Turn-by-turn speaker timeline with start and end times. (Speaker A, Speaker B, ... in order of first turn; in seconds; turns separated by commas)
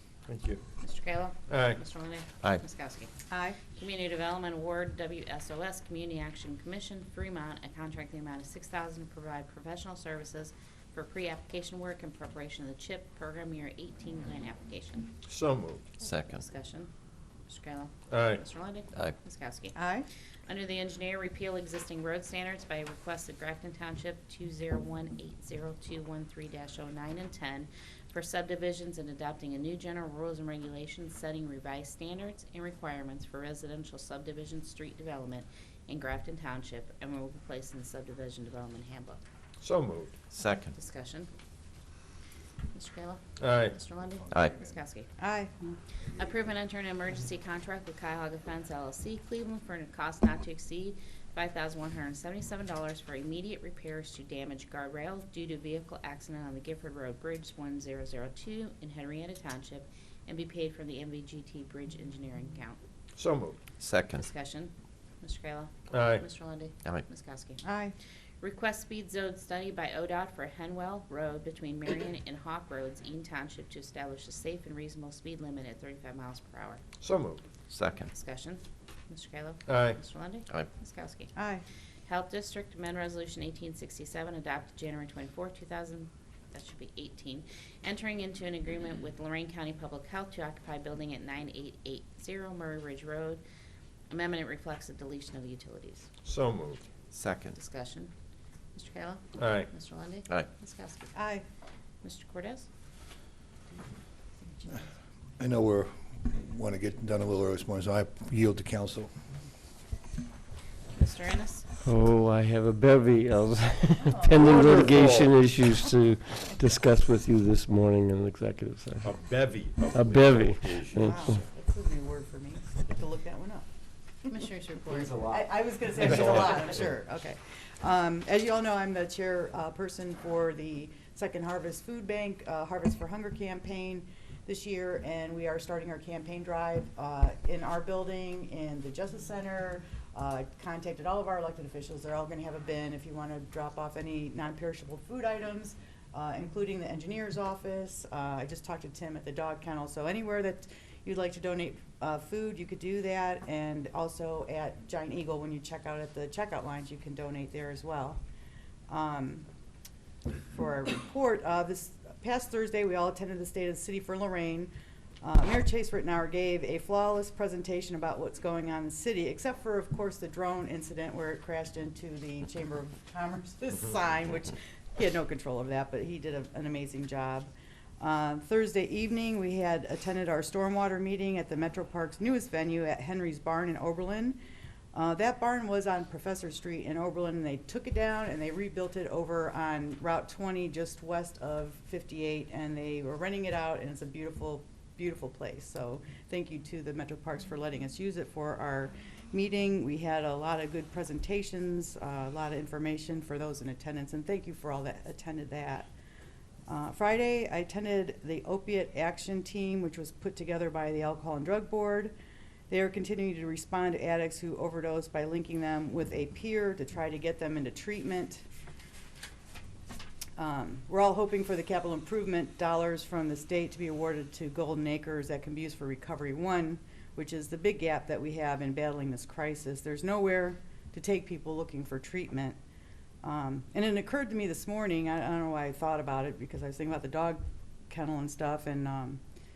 Speaker A: 0.3-0.6, Speaker B: 0.8-3.1, Speaker A: 1.5-1.8, Speaker C: 3.3-3.6, Speaker B: 3.7-15.1, Speaker A: 15.2-15.9, Speaker D: 16.0-16.4, Speaker B: 16.0-16.9, Speaker B: 17.5-19.8, Speaker A: 18.1-18.4, Speaker C: 19.7-20.1, Speaker B: 20.5-39.2, Speaker A: 39.6-40.1, Speaker D: 40.3-40.7, Speaker B: 40.7-41.3, Speaker B: 42.7-45.1, Speaker A: 43.4-43.7, Speaker C: 45.2-45.8, Speaker B: 46.1-62.8, Speaker A: 63.1-63.6, Speaker D: 63.8-64.3, Speaker B: 64.1-67.6, Speaker A: 65.9-66.2, Speaker C: 67.6-67.9, Speaker B: 68.4-76.8, Speaker A: 77.0-77.4, Speaker D: 77.7-78.1, Speaker B: 78.1-81.3, Speaker A: 79.7-80.0, Speaker C: 81.3-81.6, Speaker B: 82.0-93.4, Speaker B: 94.1-96.1, Speaker A: 96.2-96.9, Speaker D: 97.1-97.6, Speaker B: 97.5-98.1, Speaker B: 98.7-101.2, Speaker A: 99.4-99.7, Speaker C: 101.1-101.4, Speaker B: 102.0-102.7, Speaker E: 105.4-109.1, Speaker B: 110.9-111.7, Speaker F: 111.8-119.1, Speaker C: 114.0-114.4, Speaker A: 114.3-115.3, Speaker A: 119.0-121.3, Speaker F: 119.9-121.3, Speaker C: 121.0-123.7, Speaker B: 124.2-125.2, Speaker A: 125.0-125.4, Speaker C: 125.1-158.2, Speaker A: 126.0-126.8, Speaker C: 158.9-159.4, Speaker C: 160.4-184.4, Speaker C: 184.9-205.9, Speaker C: 206.7-212.1, Speaker C: 212.7-218.4, Speaker C: 220.4-232.6, Speaker C: 233.2-239.2